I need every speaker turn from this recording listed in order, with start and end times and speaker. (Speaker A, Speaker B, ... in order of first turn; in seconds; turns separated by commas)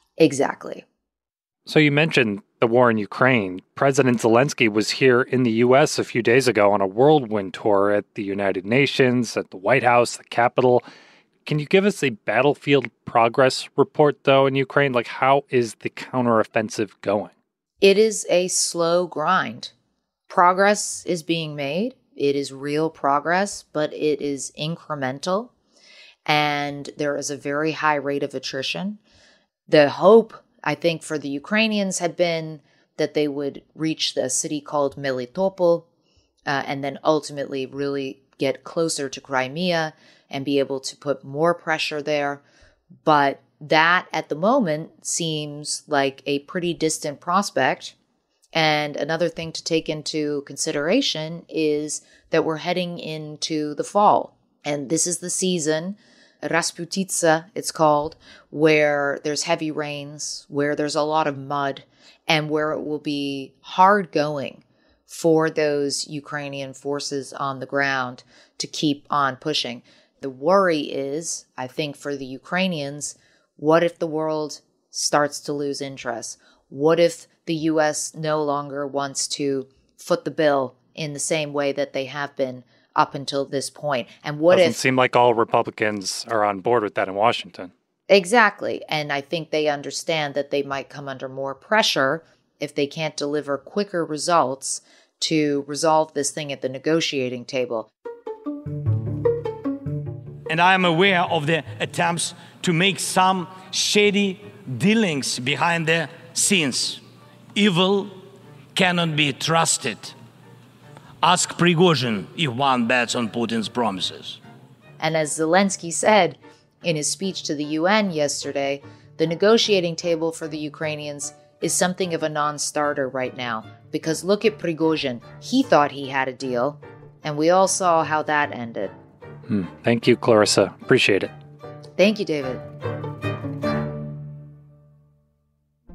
Speaker A: 0.2-0.8, Speaker B: 1.7-10.8, Speaker B: 11.4-17.3, Speaker A: 17.8-19.7, Speaker A: 20.3-25.5, Speaker A: 26.3-29.0, Speaker A: 29.7-35.8, Speaker A: 36.5-42.4, Speaker A: 43.0-48.0, Speaker A: 48.5-84.8, Speaker B: 84.5-87.7, Speaker A: 88.1-97.9, Speaker C: 100.5-107.0, Speaker C: 107.5-108.1, Speaker C: 108.7-110.1, Speaker C: 111.2-114.4, Speaker A: 115.0-128.9, Speaker B: 129.5-131.3, Speaker A: 132.0-132.6